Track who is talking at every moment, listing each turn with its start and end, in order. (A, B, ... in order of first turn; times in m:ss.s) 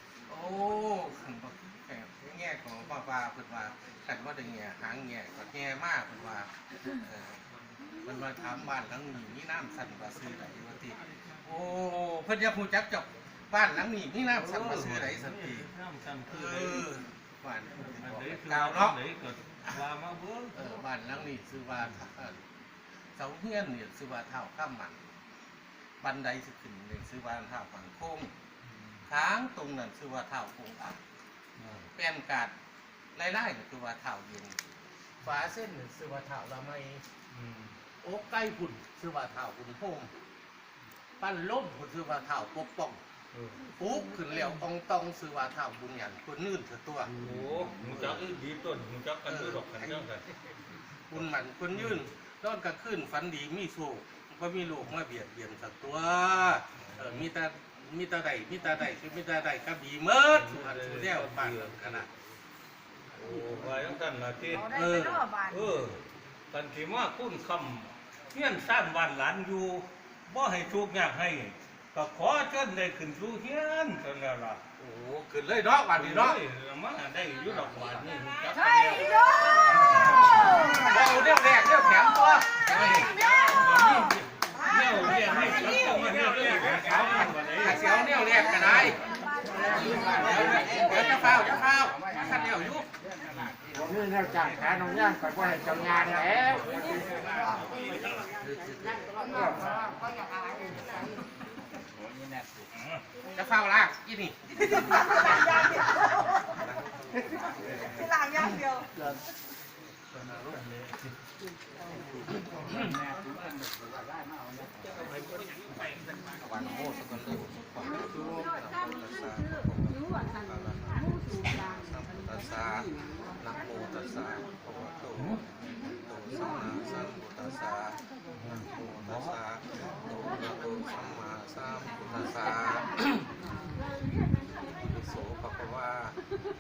0:00.3-0:07.4 A
0:08.0-0:15.7 A
0:14.3-0:16.9 B
0:16.3-0:19.0 A
0:17.9-0:20.6 B
0:20.6-0:22.4 A
0:23.2-0:25.0 A
0:26.0-0:28.3 A
0:28.7-0:29.0 B
0:29.1-0:31.0 A
0:31.6-0:31.9 B
0:32.0-0:32.5 A
0:33.1-0:34.6 A
0:35.2-0:37.0 A
0:37.3-0:37.8 B
0:38.0-0:40.1 A
0:41.2-0:43.0 A
0:43.3-0:43.6 B
0:43.8-0:47.1 A
0:47.1-0:50.3 B
0:47.8-0:48.3 A
0:49.3-0:50.0 A
0:51.1-1:02.1 A
0:56.9-0:57.3 B
1:00.3-1:02.0 B
1:03.2-1:04.8 B
1:04.6-1:05.2 A
1:04.8-1:05.7 C
1:05.5-1:14.6 B
1:14.8-1:16.4 A
1:16.0-1:20.7 B
1:18.6-1:20.9 C
1:20.3-1:23.1 A
1:22.8-1:27.8 B
1:22.9-1:26.1 C
1:25.2-1:26.0 A
1:27.2-1:29.0 A
1:27.9-1:30.9 C
1:29.6-1:32.1 D
1:29.7-1:32.9 A
1:33.8-1:37.0 D
1:38.4-1:39.0 A
1:39.4-1:39.7 D
1:43.3-1:45.9 A
1:45.7-1:46.3 C
1:46.4-1:46.8 A
1:47.4-1:47.8 A
1:48.0-1:48.9 C
1:50.2-1:50.6 B
1:52.9-1:54.7 D
1:55.0-1:55.4 B
1:56.4-2:01.0 A
2:01.6-2:02.9 A
2:03.4-2:05.4 A
2:05.9-2:08.0 A
2:08.4-2:09.3 B
2:08.5-2:13.2 A
2:14.8-2:16.2 A